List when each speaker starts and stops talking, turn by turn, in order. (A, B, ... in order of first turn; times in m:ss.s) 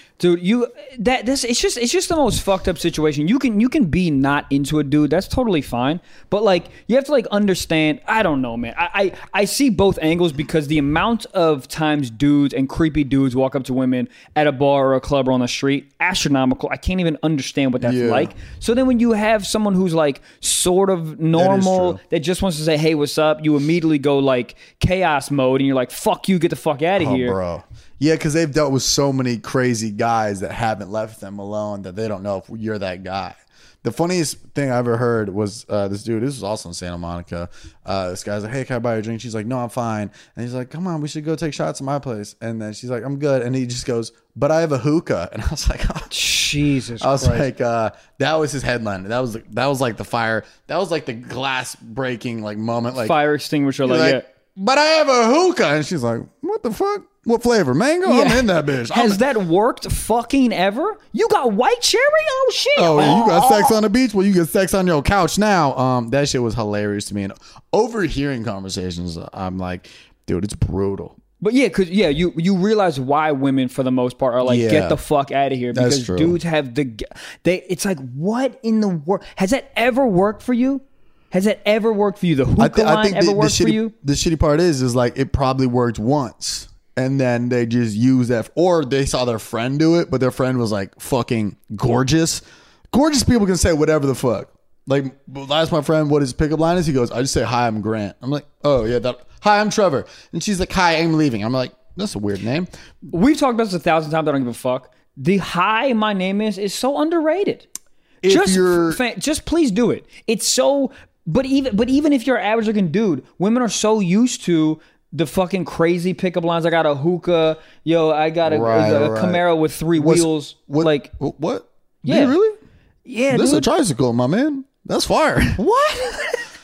0:00.2-0:27.4 A
0:17.8-0:18.3 B
0:21.3-0:22.0 B
0:27.0-0:46.1 B
0:46.1-0:47.5 A
0:47.0-0:53.2 B
0:53.0-0:54.2 A
0:53.8-0:59.2 B
0:58.0-1:03.8 A
1:02.8-1:11.1 B
1:11.4-1:23.9 A
1:14.4-1:15.0 B
1:15.7-1:16.4 B
1:22.6-1:42.7 B
1:43.1-1:47.7 A
1:48.2-1:49.0 B
1:48.2-2:01.1 A
1:58.4-1:59.4 B
1:59.9-2:02.6 B
2:02.0-2:02.4 A
2:03.0-2:03.7 A
2:03.3-2:05.6 B
2:05.6-2:06.4 A